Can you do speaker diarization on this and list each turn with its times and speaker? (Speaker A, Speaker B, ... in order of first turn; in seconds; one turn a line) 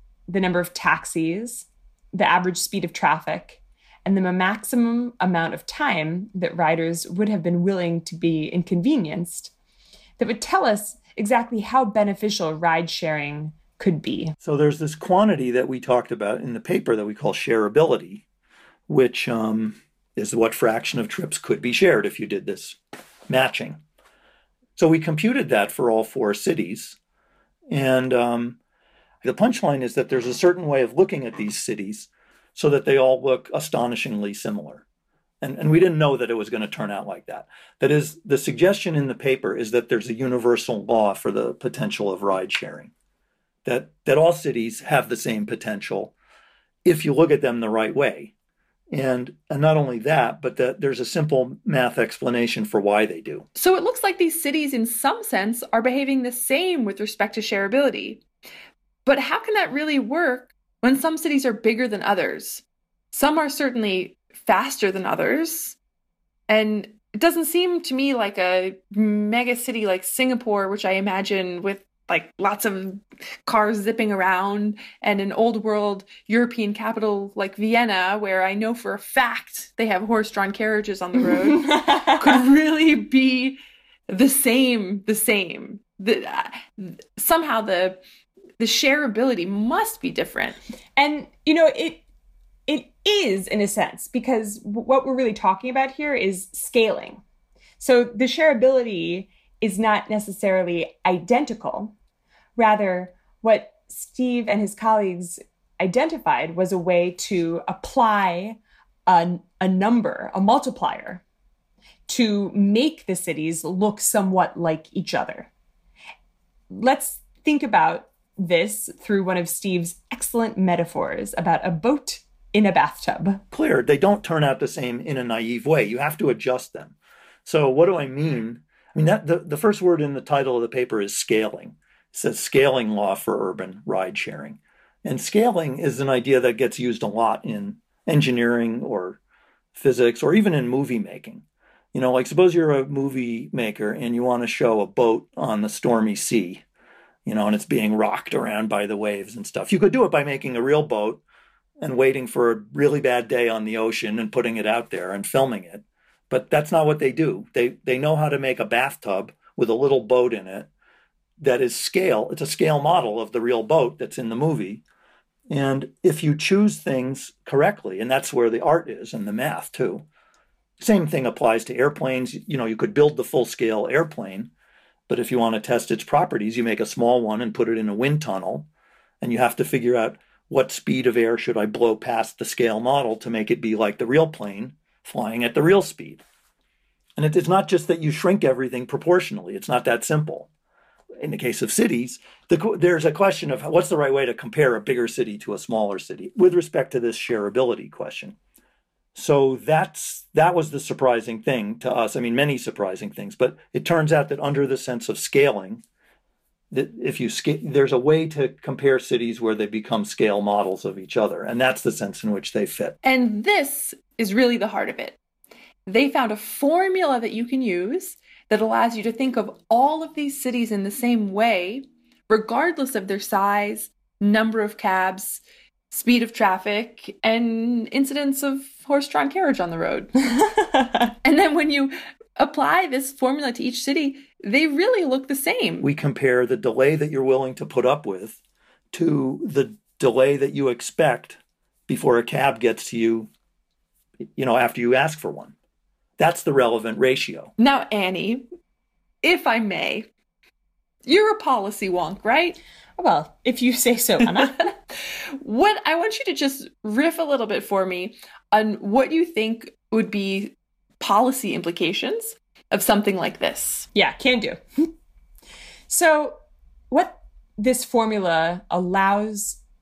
Speaker A: 0.3-9.5
Speaker A: 10.2-14.3
Speaker B: 14.4-18.2
Speaker B: 18.9-22.8
Speaker B: 23.3-23.8
Speaker B: 24.8-27.0
Speaker B: 27.7-28.6
Speaker B: 29.2-34.9
Speaker B: 35.4-42.9
Speaker B: 43.6-46.1
Speaker B: 46.9-48.3
Speaker B: 48.9-53.5
Speaker C: 53.6-58.2
Speaker C: 59.0-65.8
Speaker C: 66.5-88.0
Speaker A: 81.6-82.2
Speaker C: 88.6-90.6
Speaker A: 91.0-92.0
Speaker A: 92.7-97.2
Speaker A: 97.8-102.0
Speaker A: 102.6-111.2
Speaker A: 112.1-115.5
Speaker A: 116.7-123.4
Speaker B: 123.5-139.2
Speaker B: 139.8-146.6
Speaker B: 147.3-151.2
Speaker B: 151.8-160.7
Speaker B: 161.4-164.8
Speaker B: 165.5-170.1
Speaker B: 170.8-174.5
Speaker B: 175.1-178.7
Speaker B: 179.2-186.2
Speaker B: 187.2-190.5
Speaker B: 191.2-198.4
Speaker B: 199.2-205.8
Speaker B: 206.7-213.0
Speaker C: 213.0-215.2
Speaker C: 215.9-230.1
Speaker A: 230.4-231.0
Speaker C: 231.2-235.9
Speaker B: 235.8-238.4
Speaker B: 238.9-243.3
Speaker B: 244.4-245.6
Speaker B: 246.2-247.5
Speaker C: 247.6-248.4
Speaker C: 249.2-250.1
Speaker C: 251.1-252.6
Speaker A: 253.0-254.7
Speaker C: 254.4-254.7
Speaker C: 255.4-263.9
Speaker A: 263.9-264.9
Speaker A: 265.9-266.4
Speaker A: 266.9-269.6